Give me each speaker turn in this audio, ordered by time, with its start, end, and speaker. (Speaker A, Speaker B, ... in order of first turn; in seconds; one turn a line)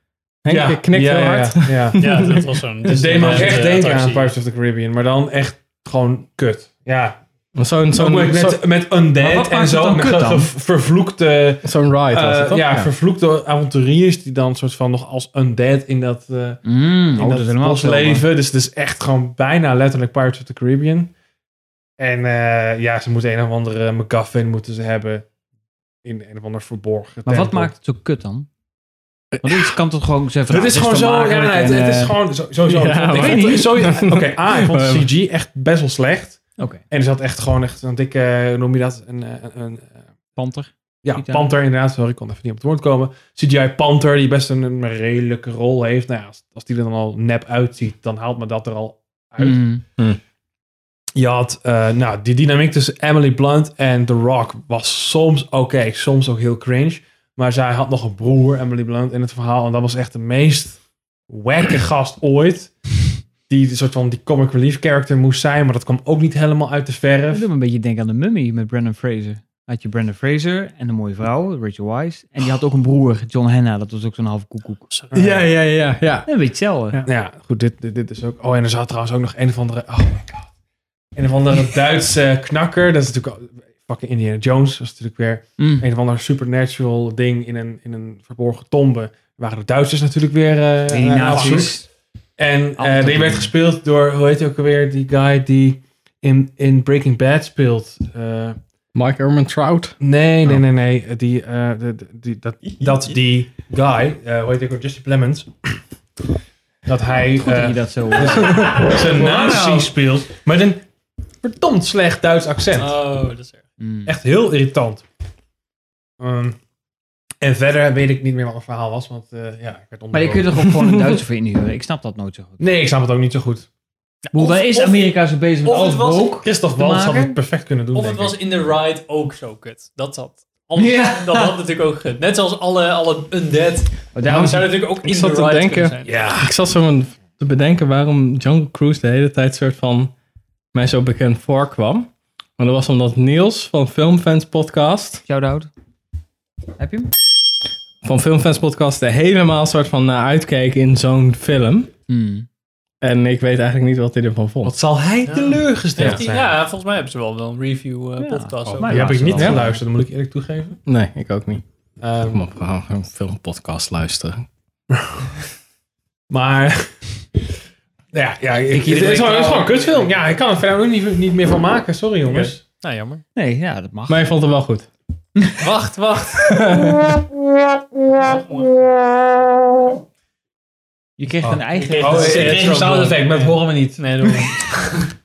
Speaker A: 0.4-3.6
Speaker B: 0.5-7.2
Speaker C: 2.0-4.3
Speaker A: 7.5-8.6
Speaker B: 7.9-21.1
Speaker D: 9.2-10.5
Speaker A: 11.6-12.9
Speaker D: 16.6-18.3
Speaker B: 22.0-25.3
Speaker B: 26.0-27.7
Speaker D: 27.3-28.5
Speaker A: 29.3-29.7
Speaker D: 29.4-32.2
Speaker B: 30.5-40.0
Speaker A: 32.7-35.1
Speaker D: 33.1-33.9
Speaker D: 36.6-36.8
Speaker D: 40.4-41.5
Speaker B: 41.0-49.6
Speaker D: 49.4-49.8
Speaker B: 51.2-62.8
Speaker B: 63.5-67.5
Speaker D: 67.3-74.9
Speaker B: 75.1-75.5
Speaker A: 75.1-76.3
Speaker D: 76.3-77.0
Speaker B: 77.0-80.5
Speaker B: 81.2-91.8
Speaker D: 85.6-85.9
Speaker D: 90.9-91.9
Speaker C: 91.4-91.6
Speaker B: 92.4-98.6
Speaker D: 92.8-93.5
Speaker A: 99.0-100.0
Speaker B: 100.0-105.7
Speaker B: 106.9-110.8
Speaker D: 107.4-109.9
Speaker B: 111.4-113.0
Speaker C: 112.8-113.6
Speaker D: 113.8-114.2
Speaker B: 114.1-115.0
Speaker B: 116.2-116.6
Speaker B: 117.4-120.7
Speaker D: 120.1-122.6
Speaker B: 122.6-123.7
Speaker C: 124.3-126.4
Speaker D: 124.3-127.4
Speaker B: 126.4-128.4
Speaker C: 127.9-136.2
Speaker D: 130.8-131.6
Speaker D: 134.1-134.7
Speaker A: 134.3-140.1
Speaker B: 136.1-136.5
Speaker A: 140.7-145.2
Speaker D: 145.3-145.7
Speaker D: 146.8-147.1
Speaker A: 148.0-151.9
Speaker D: 152.1-152.5
Speaker A: 153.0-154.8
Speaker B: 154.6-156.6
Speaker C: 155.3-159.4
Speaker D: 158.2-159.7
Speaker B: 158.8-160.8
Speaker A: 159.4-159.6
Speaker A: 160.9-161.6
Speaker B: 162.0-162.4
Speaker A: 162.2-164.5
Speaker B: 164.9-165.3
Speaker B: 166.3-167.1
Speaker B: 168.1-172.6
Speaker D: 168.7-170.0
Speaker C: 172.3-173.2
Speaker D: 173.3-174.3
Speaker A: 174.1-174.9
Speaker C: 175.6-176.5
Speaker A: 176.4-177.2
Speaker C: 178.2-178.7
Speaker D: 181.2-182.8
Speaker B: 181.4-184.5
Speaker C: 181.8-185.1